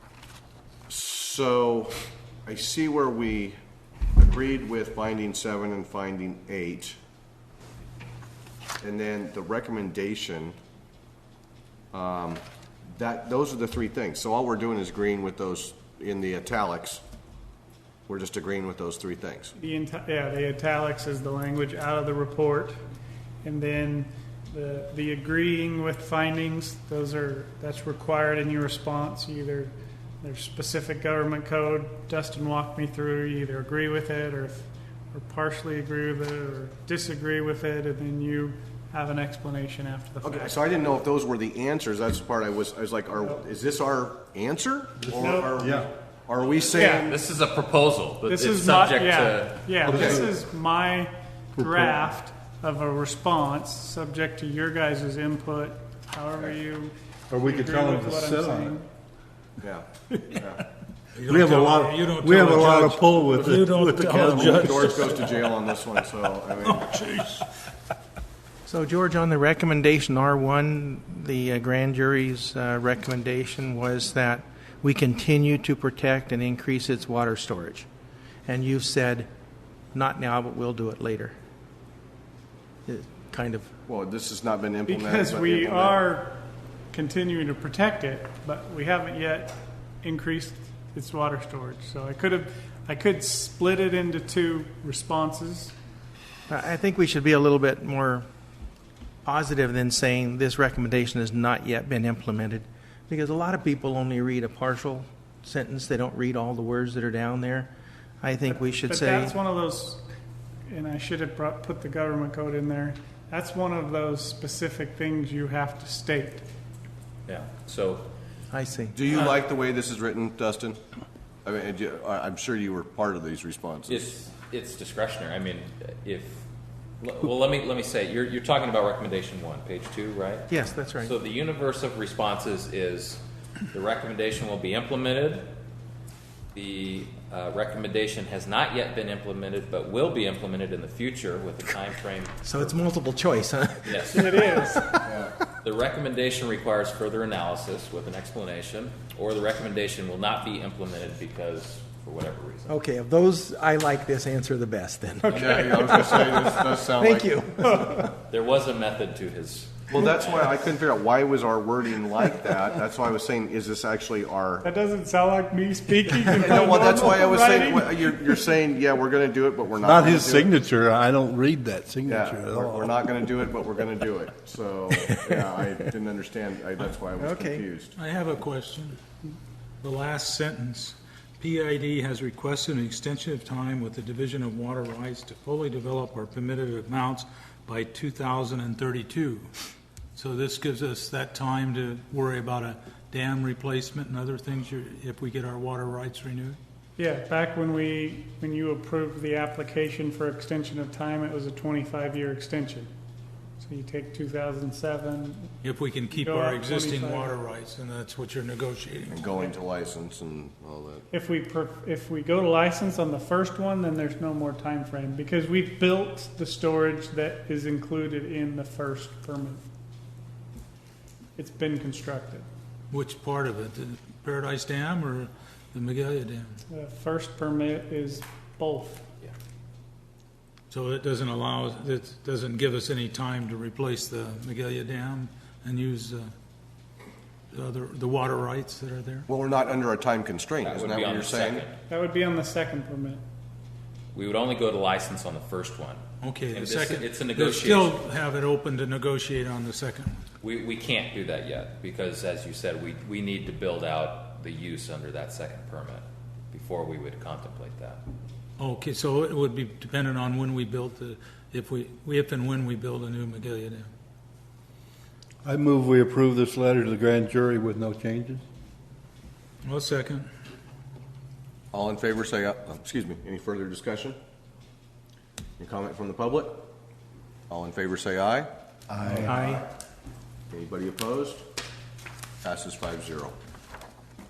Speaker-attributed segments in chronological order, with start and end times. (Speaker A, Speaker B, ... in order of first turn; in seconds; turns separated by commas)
Speaker A: 0.9-3.6, Speaker A: 4.2-7.0, Speaker A: 8.8-10.6, Speaker A: 11.9-12.4, Speaker A: 12.9-17.0, Speaker A: 18.1-19.5, Speaker B: 19.6-22.8, Speaker B: 23.4-40.6, Speaker A: 40.2-47.1, Speaker B: 45.1-45.6, Speaker C: 45.6-45.9, Speaker B: 46.7-47.3, Speaker D: 46.8-49.7, Speaker B: 48.2-58.9, Speaker A: 49.9-50.3, Speaker C: 49.9-50.3, Speaker C: 51.6-52.0, Speaker C: 57.3-58.8, Speaker A: 59.6-60.6, Speaker E: 61.2-65.4, Speaker C: 61.3-65.0, Speaker A: 63.4-66.9, Speaker E: 66.6-67.5, Speaker F: 68.7-77.9, Speaker F: 78.5-79.3, Speaker F: 79.9-81.4, Speaker F: 82.9-83.7, Speaker A: 83.9-86.0, Speaker B: 84.9-95.7, Speaker F: 96.5-98.3, Speaker F: 99.2-107.7, Speaker F: 108.2-109.3, Speaker B: 108.5-110.0, Speaker B: 110.7-116.5, Speaker D: 117.3-118.1, Speaker F: 118.5-119.0, Speaker A: 118.9-120.8, Speaker A: 121.5-124.1, Speaker D: 123.9-126.4, Speaker D: 127.0-135.5, Speaker F: 130.5-131.1, Speaker D: 136.5-142.4, Speaker F: 142.4-143.9, Speaker D: 143.9-144.6, Speaker B: 143.9-145.0, Speaker A: 145.1-145.4, Speaker D: 145.6-152.7, Speaker F: 152.7-155.3, Speaker B: 155.3-156.6, Speaker A: 155.3-157.4, Speaker F: 156.9-157.7, Speaker B: 157.6-158.1, Speaker D: 158.3-160.6, Speaker A: 159.9-164.7, Speaker B: 164.6-168.2, Speaker A: 166.4-170.5, Speaker C: 169.8-173.0, Speaker A: 172.1-177.9, Speaker F: 177.2-177.6, Speaker E: 178.0-179.0, Speaker E: 179.8-189.5, Speaker E: 190.2-196.6, Speaker B: 197.0-202.9, Speaker B: 203.6-205.5, Speaker E: 205.6-209.2, Speaker B: 206.1-207.4, Speaker A: 209.1-211.1, Speaker B: 211.1-219.6, Speaker B: 221.4-222.5, Speaker E: 222.9-226.6, Speaker B: 226.7-229.1, Speaker E: 230.7-236.3, Speaker E: 237.5-239.3, Speaker A: 239.3-241.7, Speaker D: 240.6-241.8, Speaker B: 241.9-243.2, Speaker D: 244.1-247.9, Speaker E: 246.2-250.2, Speaker D: 250.4-258.0, Speaker E: 258.6-263.9, Speaker C: 265.4-268.4, Speaker E: 269.6-270.3, Speaker A: 271.7-274.2, Speaker A: 275.6-276.7, Speaker A: 277.5-278.5, Speaker C: 278.9-279.4, Speaker A: 279.1-279.5, Speaker F: 279.2-279.6, Speaker A: 280.5-281.4, Speaker A: 282.4-283.4